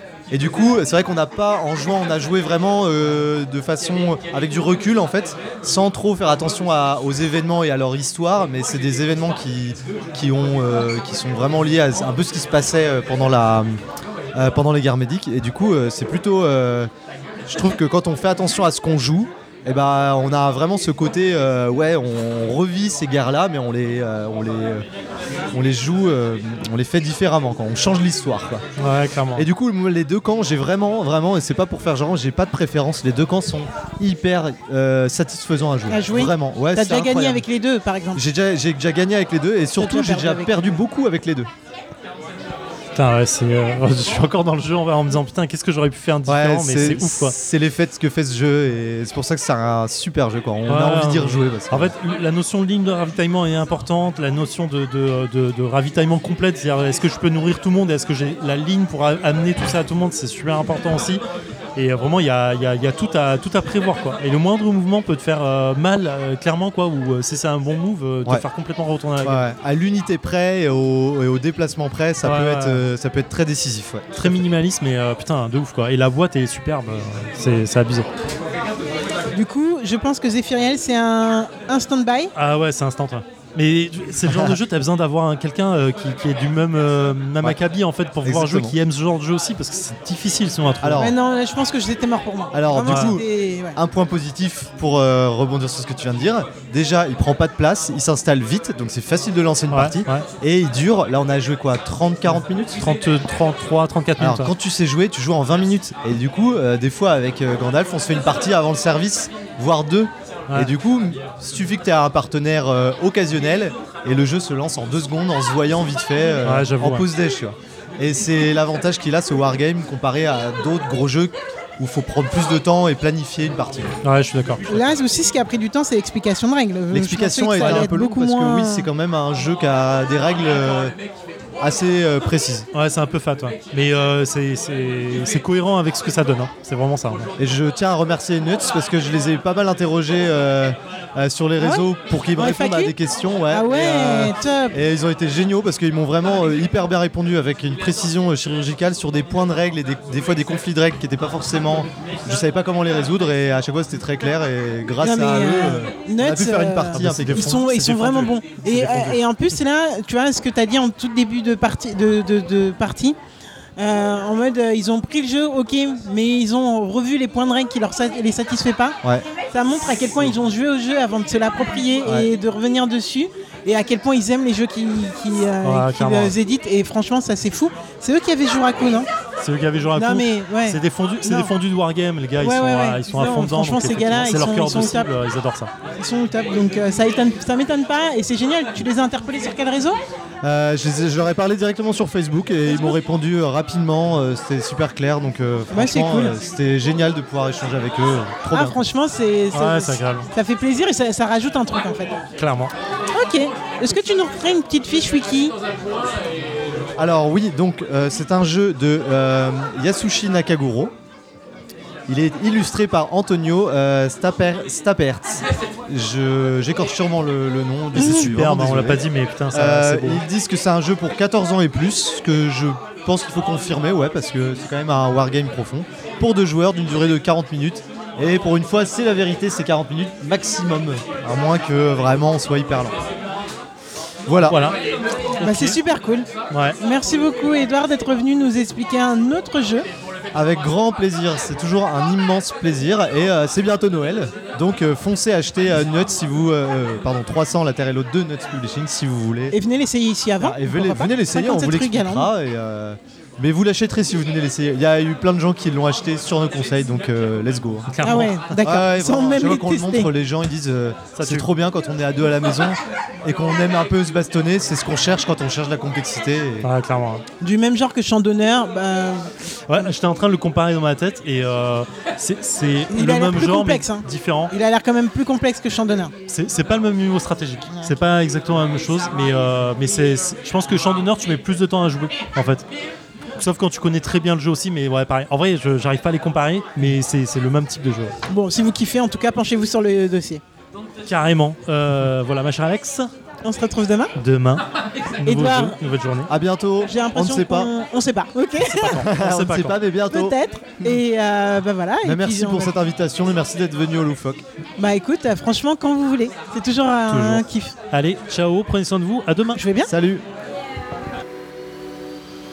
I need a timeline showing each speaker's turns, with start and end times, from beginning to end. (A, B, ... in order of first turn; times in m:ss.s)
0:00.3-0:13.8 A
0:14.4-0:16.9 A
0:17.4-0:24.8 A
0:25.5-0:28.6 A
0:28.8-0:29.5 B
0:29.4-0:37.4 A
0:35.9-0:38.2 C
0:38.1-0:41.5 A
0:39.8-0:40.8 C
0:42.9-0:47.4 B
0:46.2-0:51.9 A
0:50.6-1:01.2 B
1:01.8-1:09.5 B
1:09.2-1:14.4 A
1:12.2-1:12.9 B
1:14.1-1:18.1 B
1:19.3-1:22.3 C
1:22.3-1:31.0 B
1:24.3-1:24.6 A
1:28.2-1:28.8 A
1:30.8-1:31.2 A
1:31.0-1:33.8 C
1:32.5-1:42.8 A
1:39.7-1:40.3 B
1:42.8-1:44.5 B
1:44.2-2:03.9 A
1:56.4-1:57.1 B
2:04.0-2:04.8 B
2:04.7-2:08.9 C
2:06.9-2:11.0 A
2:07.6-2:07.8 B
2:11.6-2:12.7 A
2:12.7-2:17.3 B
2:17.4-2:37.5 A
2:21.6-2:22.9 C
2:23.5-2:24.8 C
2:35.0-2:43.2 C
2:36.9-2:39.2 B
2:43.8-2:59.1 C
2:55.6-2:56.4 B
2:59.4-3:05.7 B
3:00.0-3:01.5 C
3:02.4-3:05.1 C
3:06.0-3:10.0 C
3:10.4-3:18.8 A
3:12.6-3:13.0 C
3:15.7-3:16.3 C
3:18.5-3:22.2 C
3:19.5-3:20.3 B
3:22.3-3:22.7 B
3:23.1-3:25.5 C
3:27.0-3:30.9 A
3:32.1-3:53.0 A
3:38.0-3:40.2 B
3:38.0-3:38.3 C
3:54.3-3:54.6 A
3:54.4-3:54.8 B
3:55.4-3:55.8 B
3:55.4-3:56.3 C
3:56.5-3:56.8 B
3:56.8-3:59.9 C
4:00.3-4:09.6 A
4:09.5-4:12.3 C
4:10.4-4:17.9 A
4:17.9-4:18.6 B
4:18.0-4:20.1 C
4:18.6-4:26.7 A
4:21.1-4:21.5 B
4:26.6-4:27.2 B
4:27.4-4:29.9 C
4:29.7-4:34.5 B
4:32.9-4:36.1 C
4:36.3-4:42.7 B
4:37.7-4:38.0 C
4:43.4-4:48.1 B
4:48.3-4:50.4 C
4:51.0-4:53.1 B
4:53.4-4:54.1 C
4:54.2-4:56.3 B
4:55.2-4:55.8 C
4:56.3-4:57.7 A
4:56.8-4:59.0 C
4:58.6-4:59.8 B
4:59.0-5:01.0 A
5:00.1-5:02.7 C
5:02.0-5:04.4 A
5:04.8-5:07.8 C
5:07.0-5:09.7 B
5:09.5-5:09.9 C
5:09.8-5:10.2 A